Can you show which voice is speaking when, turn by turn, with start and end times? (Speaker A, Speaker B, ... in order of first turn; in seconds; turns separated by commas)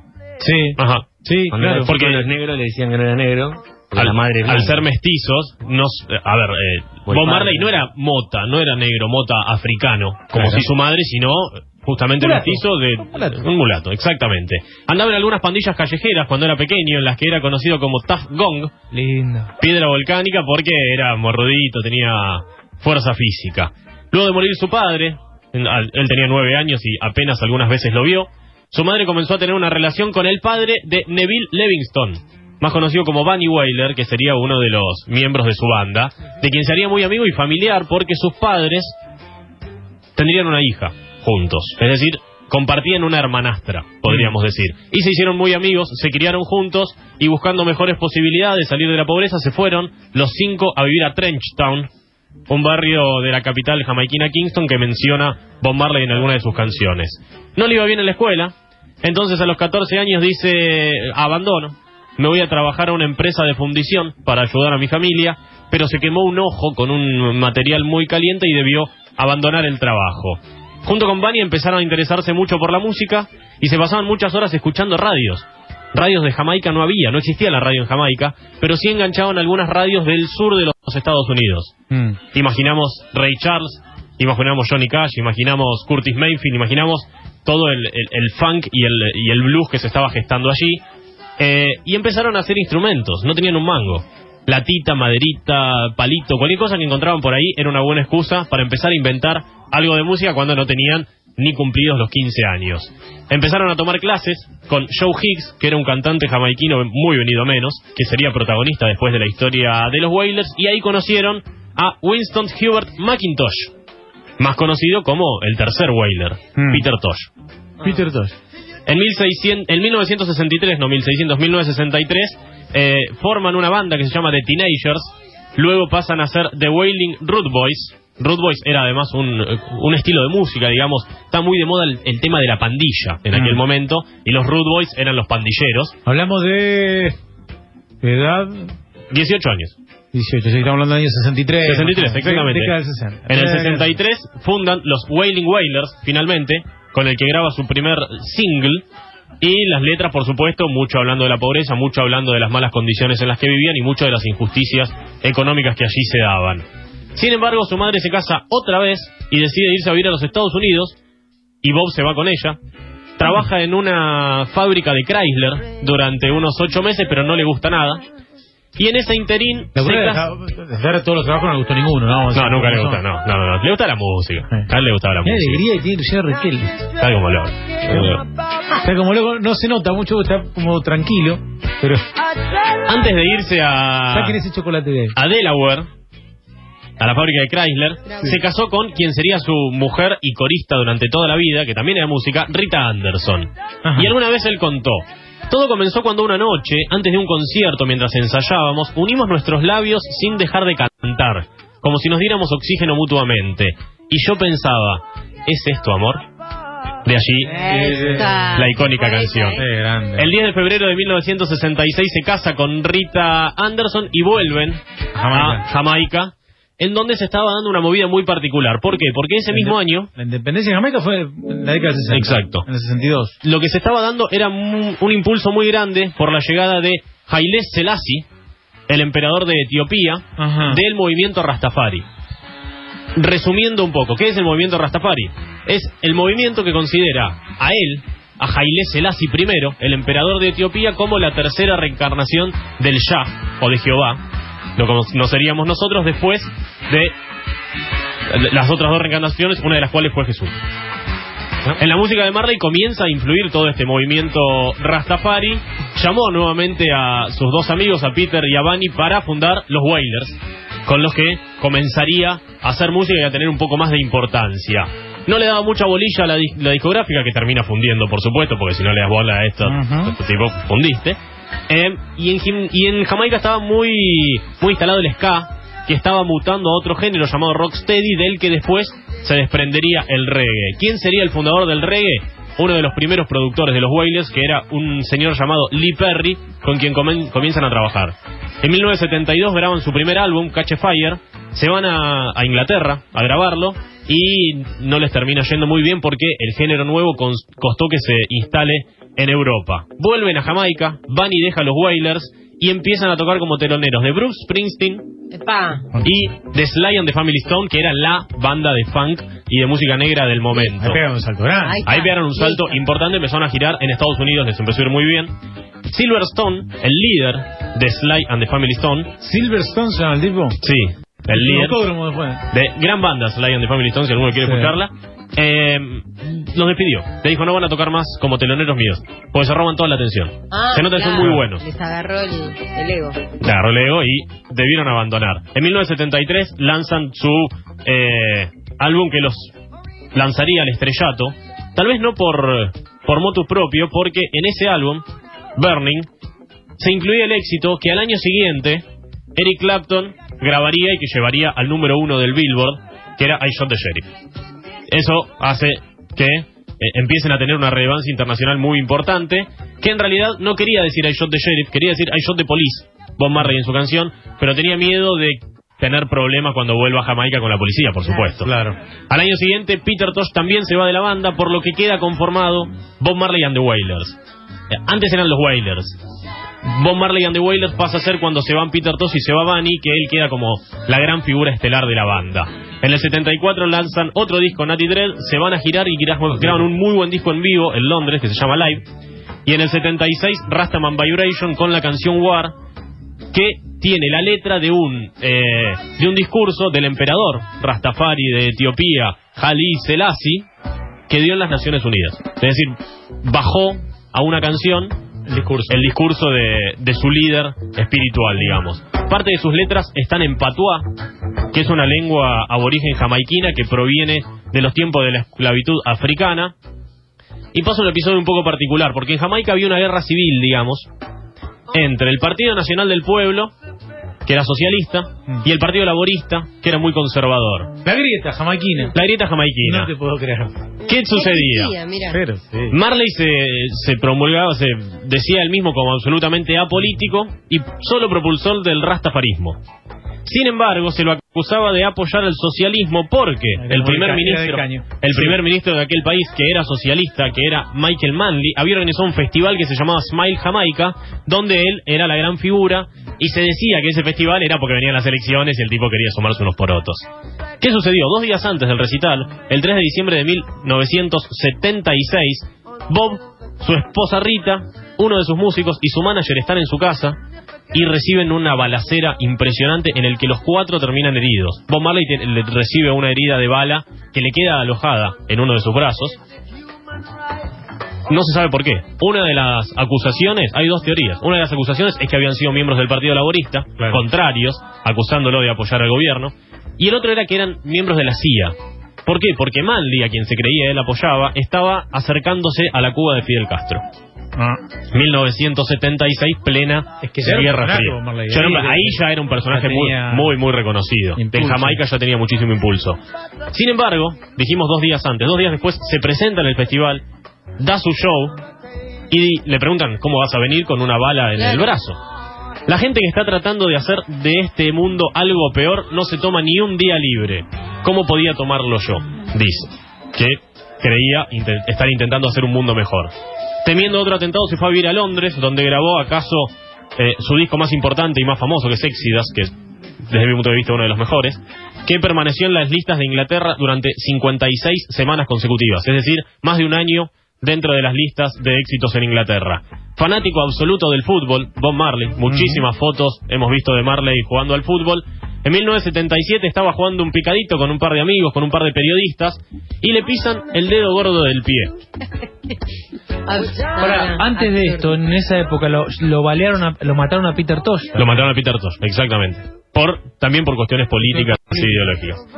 Speaker A: 0.4-1.9, Speaker B: 0.8-1.1, Speaker C: 1.5-4.9, Speaker B: 1.8-2.3, Speaker B: 4.0-18.7, Speaker C: 7.1-7.7, Speaker C: 10.3-10.7, Speaker A: 12.2-13.5, Speaker D: 18.9-19.5, Speaker B: 19.6-38.9, Speaker B: 40.2-51.9, Speaker A: 44.1-44.3, Speaker B: 52.5-81.7, Speaker A: 81.9-82.2, Speaker B: 82.3-90.8, Speaker B: 91.4-113.7, Speaker B: 114.4-117.3, Speaker A: 116.6-116.9, Speaker A: 117.8-118.4, Speaker B: 118.9-135.9, Speaker A: 133.3-133.6, Speaker A: 136.1-137.2, Speaker A: 138.0-138.7, Speaker B: 139.1-139.8, Speaker A: 140.1-143.9, Speaker B: 141.6-142.8, Speaker B: 143.3-148.8, Speaker B: 149.4-156.6, Speaker B: 157.2-161.0, Speaker B: 161.6-162.6, Speaker B: 163.2-168.0, Speaker B: 168.8-170.3, Speaker A: 169.8-173.0, Speaker B: 172.3-175.6, Speaker A: 175.2-176.9, Speaker B: 176.9-178.2, Speaker A: 177.9-178.1, Speaker A: 178.8-182.1, Speaker B: 182.8-184.4, Speaker A: 184.1-185.2, Speaker B: 185.2-185.9, Speaker B: 187.0-206.2, Speaker A: 193.8-194.1, Speaker B: 207.1-207.6, Speaker E: 207.5-209.6, Speaker A: 207.7-208.5, Speaker B: 208.5-209.6, Speaker A: 209.6-210.3, Speaker B: 210.2-214.8, Speaker A: 215.2-215.6, Speaker B: 215.3-220.1, Speaker A: 219.5-223.4, Speaker B: 222.1-222.7, Speaker B: 223.4-228.3, Speaker B: 228.9-232.1, Speaker A: 230.4-230.8, Speaker B: 233.2-244.2, Speaker B: 244.8-247.1, Speaker B: 248.3-250.6, Speaker B: 251.8-271.2, Speaker A: 269.6-270.1, Speaker B: 271.7-305.1, Speaker E: 305.3-305.9, Speaker B: 306.0-311.0, Speaker A: 310.8-311.8, Speaker E: 311.6-312.8, Speaker B: 311.9-315.3, Speaker B: 315.9-319.1, Speaker A: 319.2-320.6, Speaker B: 320.6-321.8, Speaker A: 321.3-322.5, Speaker B: 322.5-331.6, Speaker A: 324.4-324.8, Speaker E: 330.5-333.2, Speaker B: 333.4-339.5, Speaker B: 340.1-345.1, Speaker B: 345.6-346.1, Speaker B: 346.8-348.8, Speaker B: 349.4-354.1, Speaker B: 354.9-368.5, Speaker A: 368.4-368.8, Speaker B: 369.1-374.2, Speaker B: 374.7-376.0, Speaker B: 376.6-388.9, Speaker B: 389.5-392.5, Speaker B: 393.3-400.5, Speaker B: 401.1-404.9, Speaker A: 405.3-405.9, Speaker B: 405.7-410.8, Speaker B: 411.5-416.6, Speaker B: 417.5-420.9, Speaker B: 421.7-423.5, Speaker B: 424.3-427.7, Speaker A: 427.8-428.9, Speaker B: 428.9-429.9, Speaker A: 429.6-430.6, Speaker B: 430.9-431.8, Speaker E: 431.0-432.2, Speaker A: 432.1-432.8, Speaker B: 432.7-439.6, Speaker B: 440.2-457.1, Speaker A: 443.6-445.4, Speaker B: 457.6-467.2, Speaker B: 467.7-476.2, Speaker B: 478.1-488.5, Speaker A: 483.8-484.0, Speaker B: 489.1-493.8, Speaker A: 494.4-494.6, Speaker B: 494.9-503.0, Speaker A: 497.0-500.3, Speaker A: 501.2-501.8, Speaker B: 503.5-507.0, Speaker B: 507.6-508.4, Speaker B: 509.1-512.0, Speaker B: 512.7-523.1, Speaker B: 523.6-529.5, Speaker B: 530.1-551.8, Speaker A: 542.3-542.6, Speaker E: 553.3-555.0, Speaker D: 553.8-558.0, Speaker B: 558.0-562.2, Speaker D: 561.1-561.8